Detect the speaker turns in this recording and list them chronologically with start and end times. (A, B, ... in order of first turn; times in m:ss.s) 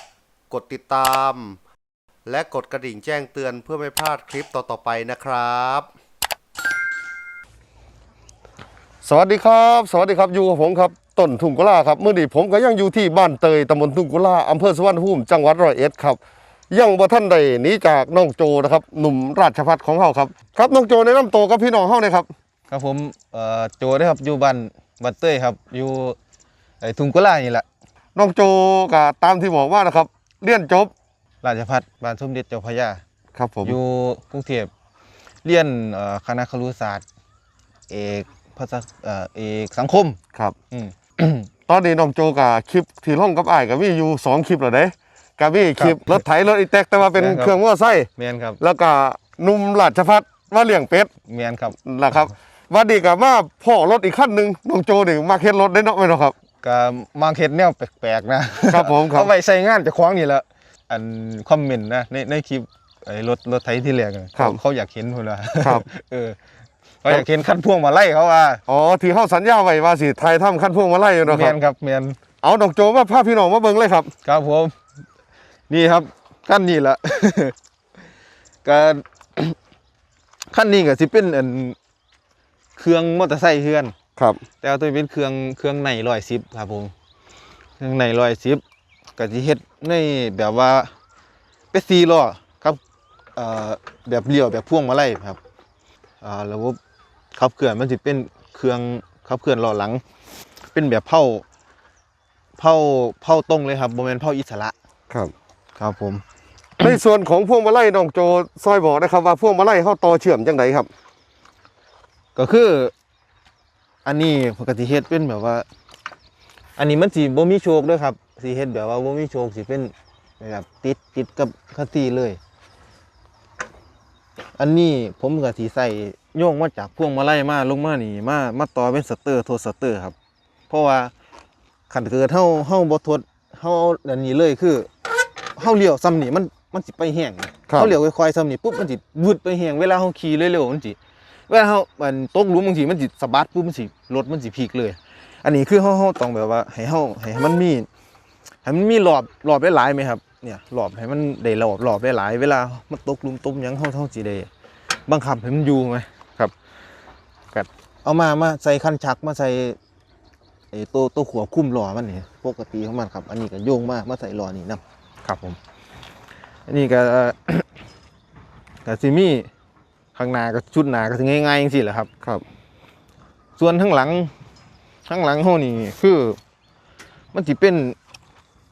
0:00.5-0:01.6 A
0:02.2-0:05.9 A
0:09.0-0:16.2 B
0:16.7-0:22.3 B
0:22.7-0:26.2 C
0:26.8-0:27.6 C
0:28.2-0:30.9 B
0:31.4-0:33.0 C
0:33.3-0:33.8 B
0:33.6-0:34.7 C
0:35.4-0:37.0 C
0:37.9-0:40.2 C
0:40.7-0:41.4 C
0:41.7-0:48.1 B
0:45.8-0:46.2 C
0:47.0-0:47.6 C
0:48.2-0:48.6 C
0:48.6-0:51.1 B
0:51.2-0:51.8 C
0:51.8-0:56.3 B
0:56.6-1:06.4 C
0:58.7-0:59.3 B
1:07.0-1:08.6 C
1:08.7-1:11.6 B
1:11.2-1:12.2 C
1:12.4-1:14.1 B
1:14.2-1:14.8 C
1:15.7-1:17.6 C
1:18.6-1:19.6 C
1:20.5-1:21.8 C
1:22.8-1:23.9 C
1:24.2-1:24.4 B
1:24.6-1:26.9 C
1:27.8-1:28.6 C
1:29.2-1:30.9 C
1:31.7-1:32.8 C
1:33.3-1:35.4 C
1:36.2-1:36.8 C
1:37.3-1:40.0 C
1:40.7-1:41.4 C
1:42.6-1:44.8 C
1:45.8-1:46.2 C
1:46.8-1:50.9 B
1:52.3-1:52.9 C
1:54.0-1:55.6 C
1:56.8-2:02.4 C
2:04.6-2:10.1 C
2:10.7-2:11.1 C
2:11.9-2:14.9 C
2:15.6-2:27.9 C
2:17.7-2:18.0 B
2:28.6-2:34.5 C
2:35.0-2:36.5 C
2:37.5-2:39.8 C
2:40.7-2:45.6 C
2:46.7-2:47.7 C
2:48.8-2:49.5 C
2:50.1-2:52.1 C
2:53.6-2:54.3 C
2:55.0-2:56.4 C
2:57.3-2:58.0 C